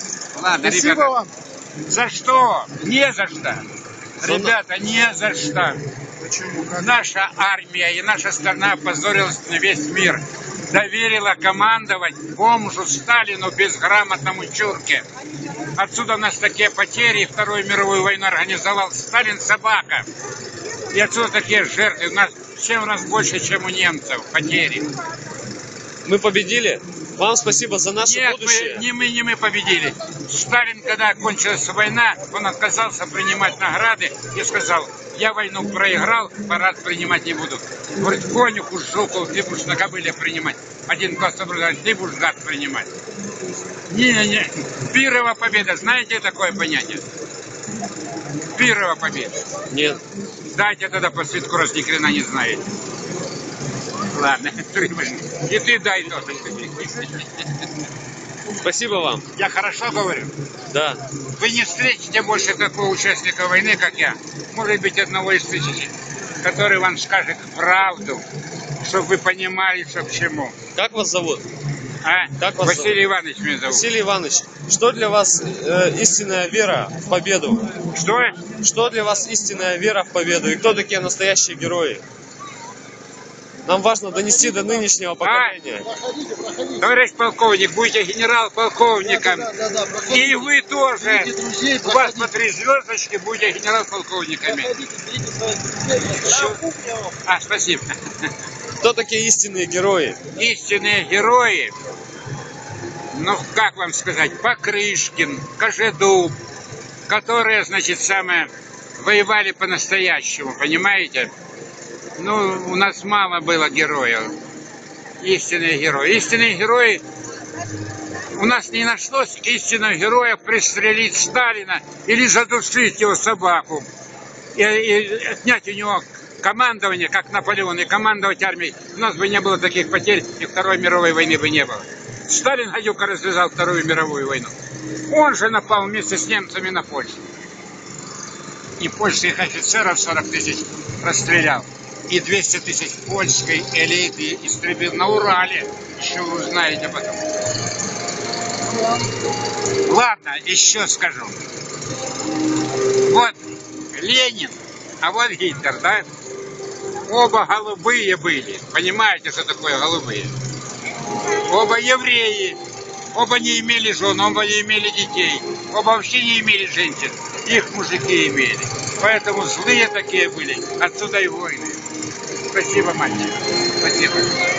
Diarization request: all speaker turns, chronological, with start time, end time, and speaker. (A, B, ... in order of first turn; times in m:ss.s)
0:00.3-0:01.2 A
0:00.6-0:01.3 B
0:01.9-0:03.7 A
0:04.2-0:05.8 A
0:04.2-0:04.6 C
0:06.2-0:06.9 B
0:06.7-0:15.1 A
0:15.8-0:20.1 A
0:20.9-0:24.9 A
0:26.0-0:28.8 C
0:28.0-0:42.9 A
0:43.9-0:47.1 A
0:48.5-0:49.4 A
0:49.7-0:50.0 C
0:50.5-0:52.6 A
0:54.0-0:57.5 A
0:58.6-0:59.3 C
0:59.4-1:00.3 A
1:00.7-1:01.0 C
1:01.4-1:08.2 A
1:08.8-1:10.6 A
1:10.8-1:11.4 C
1:12.0-1:13.9 A
1:12.4-1:13.0 C
1:13.7-1:17.7 C
1:17.9-1:18.4 A
1:18.6-1:22.0 C
1:23.7-1:25.9 C
1:25.2-1:25.6 A
1:25.8-1:26.8 B
1:26.8-1:29.5 A
1:29.1-1:30.4 B
1:30.1-1:34.7 A
1:31.0-1:32.3 B
1:34.5-1:37.1 B
1:36.0-1:36.6 A
1:37.2-1:38.3 A
1:38.8-1:40.2 C
1:40.3-1:41.8 A
1:43.1-1:46.4 A
1:47.1-1:51.3 A
1:52.2-1:54.4 A
1:55.2-1:57.0 A
1:58.3-2:03.9 A
2:04.6-2:14.5 A
2:15.1-2:17.2 A
2:18.8-2:27.3 A
2:29.8-2:31.4 A
2:32.8-2:36.1 A
2:37.1-2:40.3 A
2:41.2-2:42.6 A
2:43.1-2:51.8 A
2:52.5-2:54.4 A